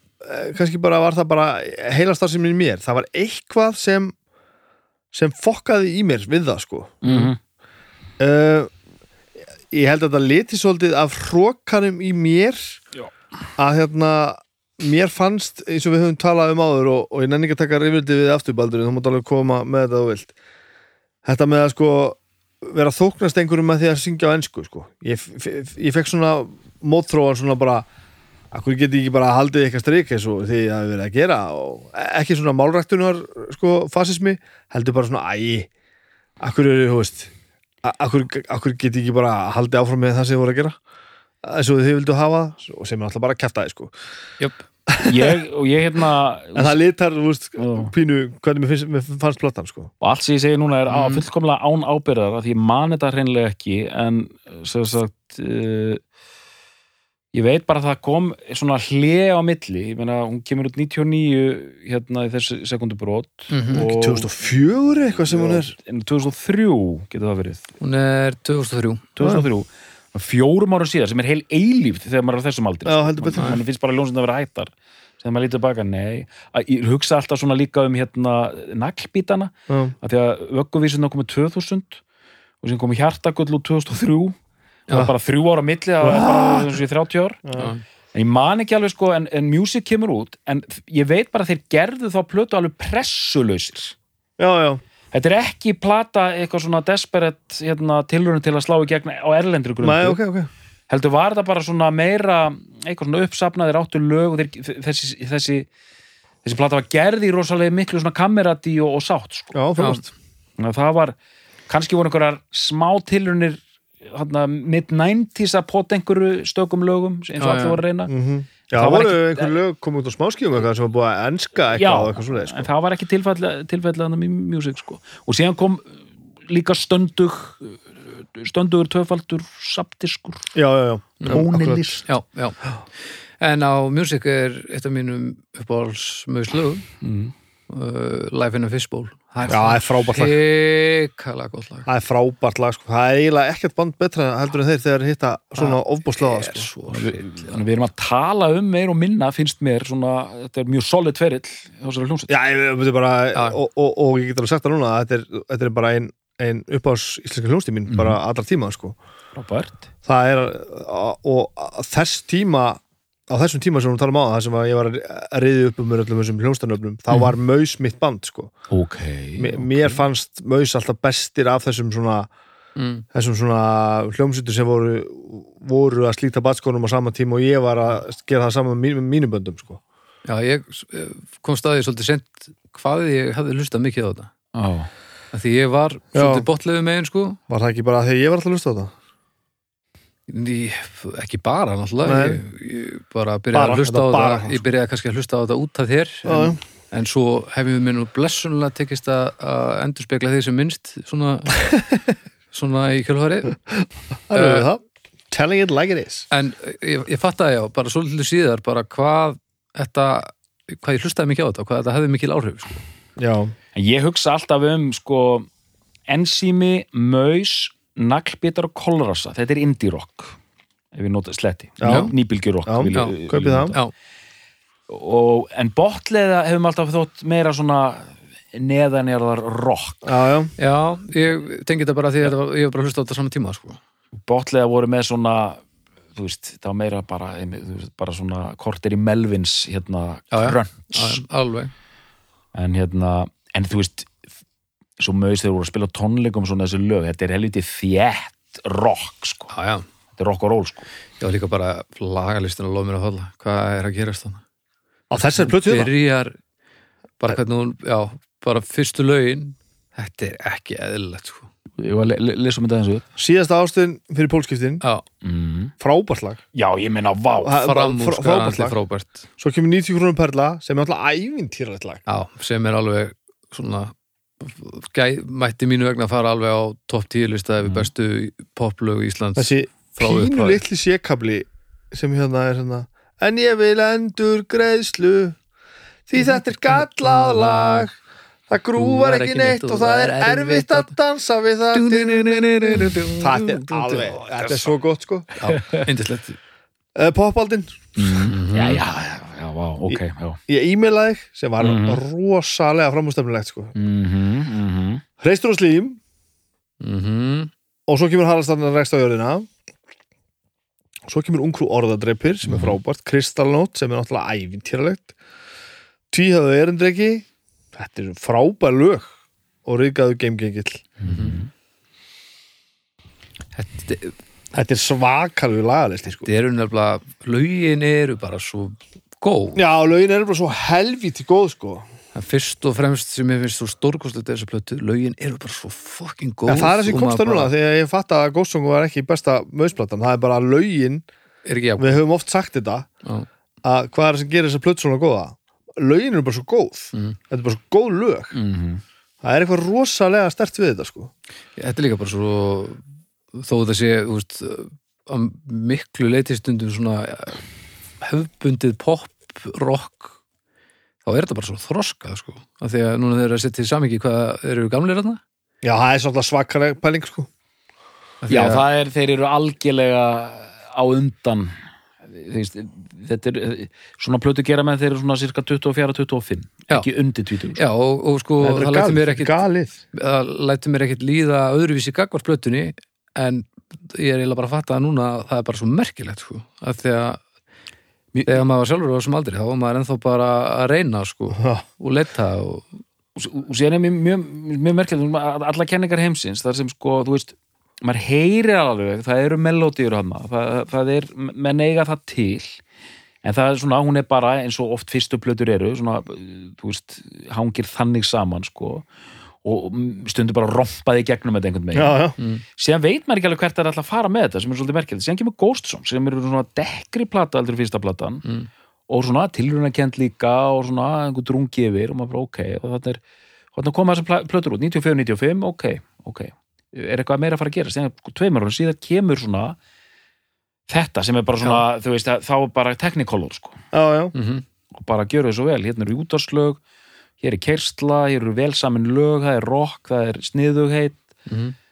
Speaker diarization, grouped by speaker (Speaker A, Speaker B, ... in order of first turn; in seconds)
Speaker A: 0.2-4.1, 5.1-7.3, 8.2-8.7, 9.7-12.8, 13.6-20.3, 21.2-27.9, 28.5-35.7, 36.4-37.3, 37.8-40.8, 41.4-43.9, 44.9-45.4, 46.5-49.9, 63.7-65.7, 69.2-69.5, 72.8-73.6, 79.7-79.9, 86.0-86.8, 87.5-87.7, 94.4-94.8, 99.8-100.5, 109.5-110.0, 118.1-122.7, 130.5-131.9, 139.5-140.4, 141.8-146.7, 152.3-159.0, 160.0-168.5, 169.4-172.3, 173.1-179.8, 186.1-186.5, 187.5-188.9, 192.0-192.4, 193.5-194.6, 196.2-196.6, 204.3-206.2, 213.2-213.5, 221.8-222.1, 222.7-223.8, 230.0-230.5, 255.1-255.9, 263.1-264.8, 265.8-266.4, 267.4-268.8, 269.4-272.0, 279.4-285.4, 286.1-287.9, 288.5-295.3, 296.9-298.1, 299.9-303.7, 305.2-306.0, 307.9-309.5, 311.1-315.1, 316.1-319.1, 319.6-320.9, 324.5-326.3, 329.6-331.8, 336.5-341.0, 341.8-342.9, 343.6-348.3, 349.2-351.1, 365.6-367.3, 378.4-379.8, 391.4-391.6, 411.7-412.2, 433.7-434.1
Speaker B: 7.0-7.4, 45.0-46.8, 47.6-47.9, 50.0-56.0, 57.3-64.3, 65.2-67.7, 69.2-82.0, 82.6-84.3, 84.9-87.4, 88.1-93.9, 95.1-100.2, 100.9-105.7, 106.4-109.6, 110.6-111.2, 111.7-118.1, 118.7-119.5, 121.7-125.9, 126.5-130.5, 131.2-132.1, 137.0-137.3, 146.9-152.3, 157.9-158.2, 159.3-159.8, 168.7-170.0, 184.5-184.9, 213.7-215.5, 216.1-220.3, 220.9-223.8, 224.9-230.1, 234.2-235.6, 236.1-241.2, 242.5-244.1, 245.0-249.5, 250.2-250.9, 261.8-263.1, 265.2-265.7, 266.5-267.6, 277.6-277.9, 292.6-293.0, 295.5-295.8, 298.0-300.4, 301.6-302.0, 303.7-305.0, 312.4-312.8, 321.0-321.5, 348.3-348.8, 368.3-371.5, 372.1-377.6, 388.1-388.4, 393.1-402.6, 403.2-408.8, 409.4-412.0, 412.6-418.2, 418.9-423.0, 423.5-429.6, 430.7-433.6, 434.7-436.6, 437.2-441.0
Speaker C: 50.9-51.2, 63.5-63.8, 67.8-69.1, 87.5-87.8, 109.8-110.0, 117.4-117.8, 132.1-132.6, 133.4-136.8, 137.7-141.9, 145.6-147.5, 172.8-173.0, 180.2-184.3, 185.3-187.4, 190.3-201.7, 202.5-203.6, 204.3-204.7, 206.3-212.8, 221.8-222.1, 230.6-233.8, 240.3-241.7, 249.5-249.8, 251.2-254.4, 255.4-256.4, 257.2-261.5, 267.6-269.2, 272.1-280.6, 286.2-287.9, 288.8-290.9, 291.7-294.4, 295.4-296.4, 298.2-298.8, 306.8-307.5, 321.0-321.4, 323.5-324.1, 326.2-329.6, 332.1-337.5, 341.4-342.0, 351.6-352.8, 353.3-357.4, 358.0-360.2, 361.0-365.2, 368.2-368.6, 377.6-379.4, 379.9-387.2, 388.2-392.8, 412.2-412.4, 434.1-434.4, 441.3-441.5